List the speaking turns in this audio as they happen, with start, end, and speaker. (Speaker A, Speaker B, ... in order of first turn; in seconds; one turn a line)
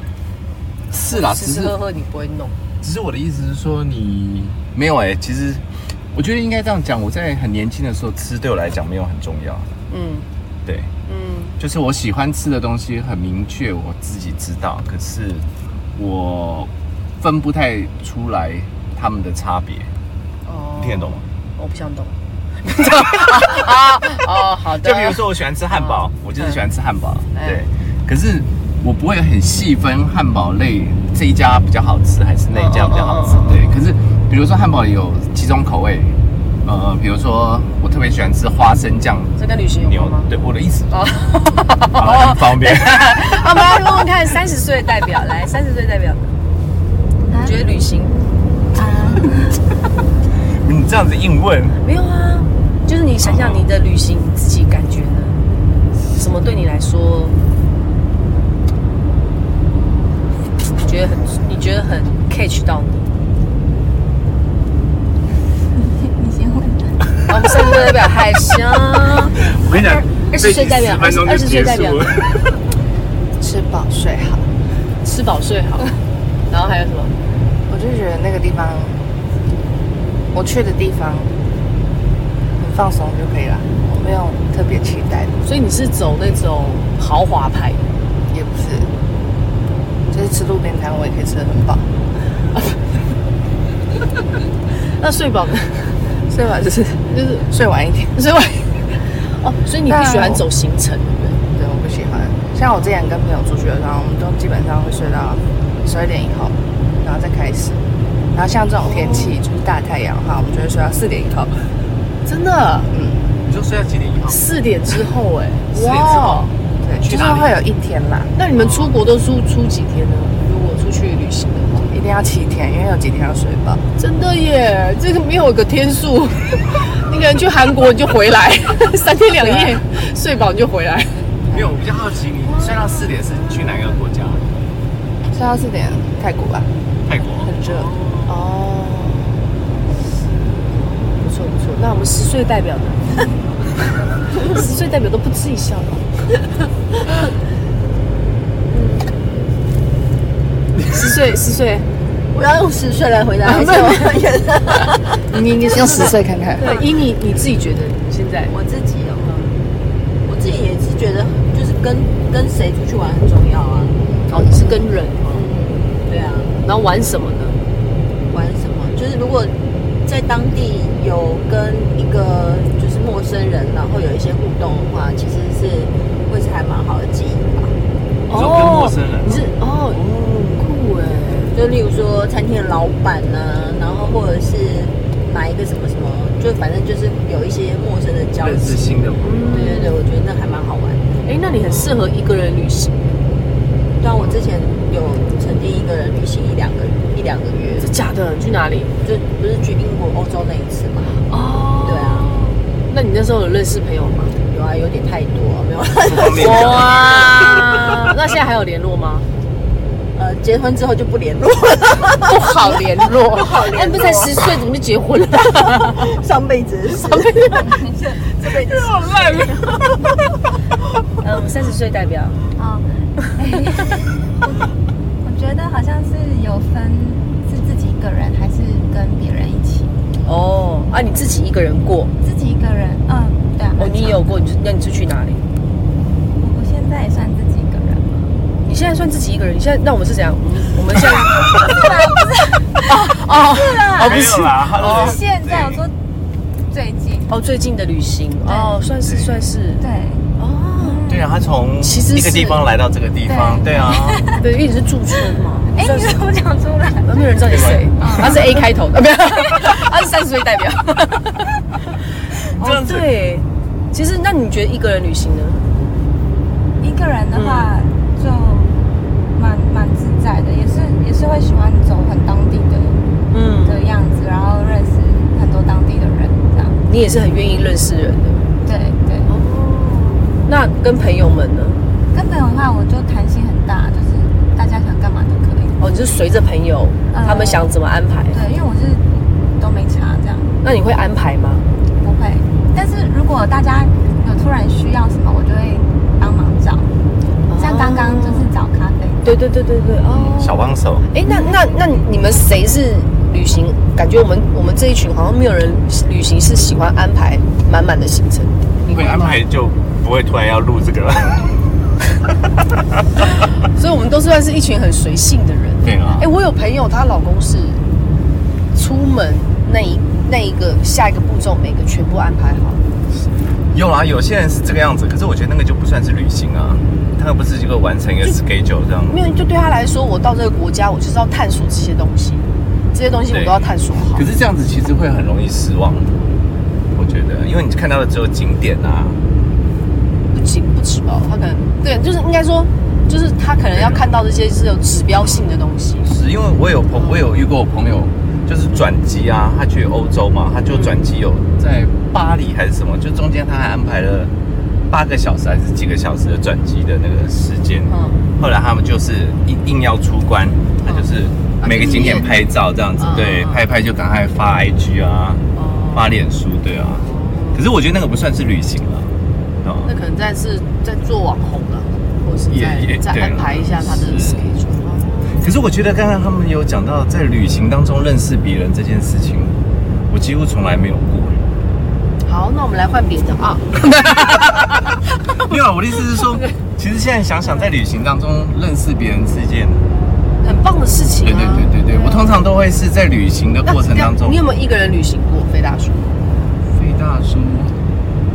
Speaker A: 0.9-1.8
Speaker B: 1.1-2.6
Speaker A: 2.8-9.7
Speaker B: 9.9-10.3
Speaker A: 10.6-10.9
Speaker B: 11.1-11.6
Speaker A: 11.6-19.9
Speaker B: 20.4-26.6
Speaker A: 20.8-21.2
Speaker A: 24.8-40.9
Speaker B: 27.3-27.6
Speaker B: 32.5-33.7
Speaker B: 39.4-40.3
Speaker B: 40.9-46.3
Speaker A: 42.0-43.4
Speaker C: 47.2-47.6
Speaker B: 47.4-48.2
Speaker C: 48.7-49.5
Speaker A: 50.6-51.8
Speaker B: 51.8-55.4
Speaker A: 53.2-53.7
Speaker B: 56.1-57.4
Speaker B: 60.8-63.0
Speaker C: 65.7-66.9
Speaker B: 67.3-72.0
Speaker A: 69.3-72.6
Speaker D: 73.4-74.5
Speaker B: 75.0-76.0
Speaker B: 76.5-77.1
Speaker D: 77.7-79.0
Speaker D: 80.3-81.3
Speaker D: 82.6-85.3
Speaker B: 85.4-87.8
Speaker D: 88.3-88.9
Speaker D: 90.1-91.9
Speaker B: 95.0-96.0
Speaker D: 96.3-98.2
Speaker B: 97.1-97.5
Speaker B: 98.2-101.4
Speaker D: 99.9-100.4
Speaker D: 101.5-107.8
Speaker D: 108.3-111.7
Speaker B: 108.8-109.4
Speaker B: 112.2-112.9
Speaker D: 112.9-113.2
Speaker A: 113.4-114.4
Speaker B: 114.3-116.5
Speaker A: 115.7-116.4
Speaker D: 116.0-118.3
Speaker A: 117.0-117.5
Speaker B: 118.3-121.9
Speaker A: 118.6-118.9
Speaker D: 121.9-123.8
Speaker B: 124.0-131.3
Speaker A: 131.5-134.4
Speaker B: 132.6-132.9
Speaker D: 135.3-136.7
Speaker A: 137.0-138.2
Speaker D: 137.4-137.9
Speaker B: 138.3-139.5
Speaker B: 140.8-143.2
Speaker B: 144.4-146.3
Speaker E: 148.7-149.1
Speaker B: 150.9-151.9
Speaker E: 152.3-156.1
Speaker B: 153.4-154.2
Speaker B: 155.3-158.5
Speaker D: 155.7-156.8
Speaker E: 156.6-156.9
Speaker E: 158.5-159.3
Speaker B: 159.2-159.6
Speaker E: 160.2-164.0
Speaker D: 164.0-164.3
Speaker B: 164.3-165.5
Speaker E: 164.5-166.6
Speaker B: 166.6-167.6
Speaker E: 168.3-177.7
Speaker B: 178.3-181.5
Speaker A: 178.3-180.6
Speaker E: 181.5-192.0
Speaker A: 188.4-189.8
Speaker B: 189.2-190.0
Speaker B: 191.2-193.0
Speaker E: 194.0-197.9
Speaker B: 197.8-198.9
Speaker E: 199.0-201.2
Speaker B: 201.2-204.3
Speaker E: 201.8-202.4
Speaker E: 204.5-207.2
Speaker A: 206.0-207.4
Speaker B: 206.4-209.2
Speaker E: 210.1-214.4
Speaker B: 212.2-216.1
Speaker E: 215.4-219.9
Speaker B: 216.9-217.7
Speaker C: 217.6-217.9
Speaker B: 218.4-219.7
Speaker B: 221.2-222.4
Speaker C: 222.6-224.7
Speaker C: 225.2-229.9
Speaker B: 230.2-232.1
Speaker C: 232.2-234.2
Speaker B: 233.8-235.4
Speaker C: 236.3-238.4
Speaker B: 238.6-241.8
Speaker C: 240.9-245.9
Speaker B: 242.9-245.2
Speaker A: 244.0-245.8
Speaker C: 246.7-247.3
Speaker B: 247.3-249.8
Speaker C: 248.4-248.8
Speaker C: 249.8-250.3
Speaker B: 250.4-251.0
Speaker C: 250.8-251.2
Speaker A: 251.1-254.3
Speaker B: 251.8-252.6
Speaker C: 253.3-254.4
Speaker B: 254.4-256.2
Speaker C: 255.7-257.3
Speaker B: 257.1-261.5
Speaker A: 257.4-258.3
Speaker C: 258.0-258.6
Speaker A: 262.5-263.1
Speaker B: 262.5-265.6
Speaker C: 266.8-268.7
Speaker B: 267.3-267.7
Speaker C: 269.3-273.0
Speaker B: 273.3-273.8
Speaker C: 273.6-276.8
Speaker B: 276.9-278.5
Speaker C: 278.6-279.3
Speaker B: 279.3-281.8
Speaker C: 282.1-285.8
Speaker B: 285.8-288.4
Speaker C: 287.1-287.7
Speaker C: 288.3-290.6
Speaker B: 290.6-291.6
Speaker C: 292.0-296.9
Speaker B: 297.5-298.5
Speaker C: 297.6-299.4
Speaker B: 299.2-309.4
Speaker A: 300.1-301.1
Speaker A: 308.9-311.7
Speaker B: 313.7-317.8
Speaker A: 315.8-316.3
Speaker B: 318.7-322.8
Speaker A: 323.1-329.2
Speaker B: 329.1-334.3
Speaker A: 333.3-336.2
Speaker A: 336.9-339.2
Speaker B: 340.3-346.1
Speaker A: 343.7-344.0
Speaker A: 346.0-354.3
Speaker B: 346.9-347.5
Speaker B: 350.7-351.0
Speaker A: 354.9-369.9
Speaker B: 357.9-358.2
Speaker B: 361.6-362.4
Speaker B: 363.0-363.6
Speaker B: 365.5-366.1
Speaker B: 367.0-367.6
Speaker B: 369.8-375.5
Speaker A: 372.5-374.5
Speaker A: 375.3-379.6
Speaker A: 380.1-381.4
Speaker B: 382.2-385.5
Speaker A: 385.4-389.8
Speaker B: 386.2-386.4
Speaker B: 390.4-392.3
Speaker A: 391.2-394.4
Speaker B: 393.6-396.2
Speaker A: 396.7-397.8